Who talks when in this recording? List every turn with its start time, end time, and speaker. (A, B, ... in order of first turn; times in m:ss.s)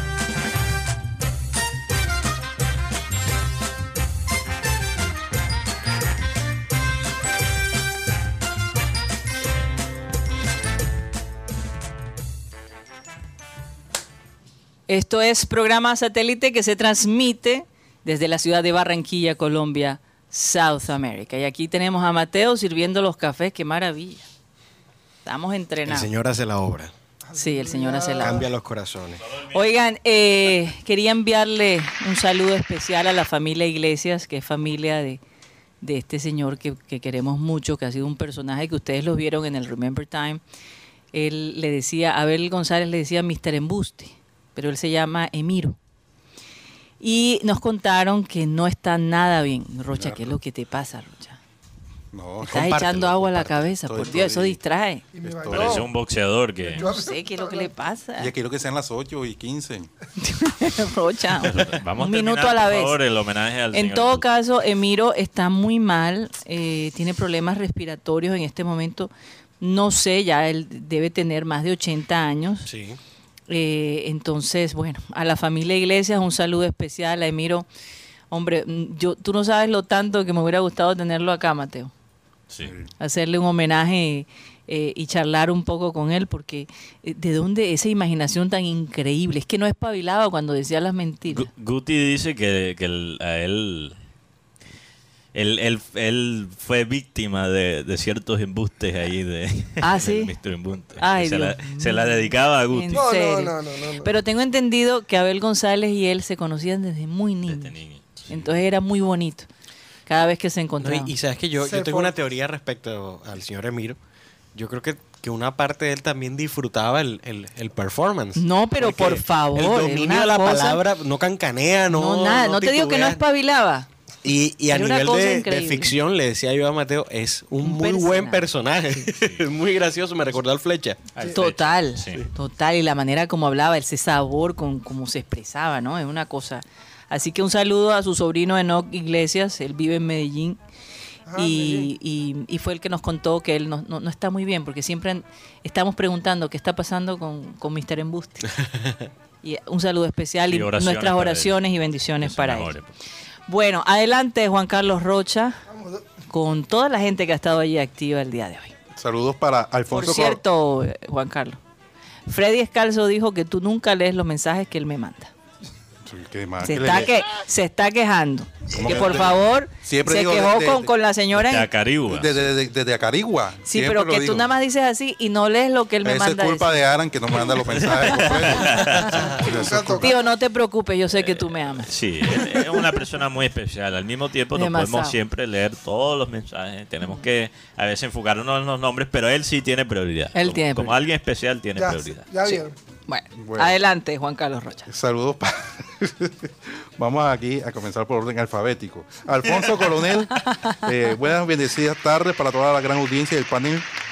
0:14.9-0:24.3 A
0:25.2-0:26.1 A
0:25.9-0:26.9 B
0:27.3-0:28.5 C
0:27.4-0:28.4 A
0:28.2-0:29.2 B
0:29.5-0:35.2 A
0:35.8-0:40.4 A
0:41.1-0:45.8 A
0:47.0-0:51.4 A
0:49.9-0:50.4 D
0:52.1-0:54.6 D
0:52.4-0:55.1 A
0:55.1-0:55.9 C
0:55.2-0:55.9 D
0:55.5-0:56.9 E
0:56.6-0:57.7 C
0:56.7-0:58.3 A
0:58.2-0:59.9 D
1:00.2-1:03.0 A
1:01.4-1:04.2 E
1:03.7-1:12.7 A
1:12.6-1:13.0 B
1:13.5-1:17.7 A
1:18.3-1:21.9 A
1:22.6-1:22.9 D
1:23.0-1:31.5 A
1:31.3-1:34.0 E
1:35.3-1:43.0 E
1:39.8-1:40.3 A
1:41.0-1:47.8 A
1:42.9-1:44.1 C
1:47.5-1:48.5 E
1:48.3-1:49.5 A
1:50.1-1:51.1 A
1:50.8-1:54.0 B
1:51.6-1:52.2 C
1:54.5-2:03.2 B
1:58.4-2:00.8 A
2:01.9-2:03.9 A
2:04.2-2:11.1 B
2:04.7-2:05.9 A
2:07.6-2:08.4 A
2:11.2-2:12.3 E
2:11.3-2:20.6 A
2:21.3-2:21.9 C
2:21.4-2:28.5 A
2:28.7-2:29.0 B
2:29.4-2:32.7 A
2:30.5-2:31.6 E
2:32.2-2:32.9 E
2:33.5-2:35.6 A
2:35.7-2:36.1 C
2:36.3-2:38.7 A
2:39.0-2:40.4 D
2:39.9-2:41.6 A
2:42.3-2:45.3 A
2:46.1-2:47.2 D
2:46.6-2:51.7 A
2:48.7-2:50.9 D
2:51.4-2:52.5 E
2:52.1-2:54.5 D
2:53.7-2:56.8 A
2:56.0-3:00.1 D
2:57.7-2:59.3 E
2:59.0-3:00.2 C
3:00.0-3:01.9 A
3:01.1-3:12.3 E
3:04.6-3:05.2 A
3:10.4-3:11.0 A
3:11.8-3:12.8 C
3:12.4-3:14.9 A
3:13.4-3:13.8 D
3:14.9-3:23.9 D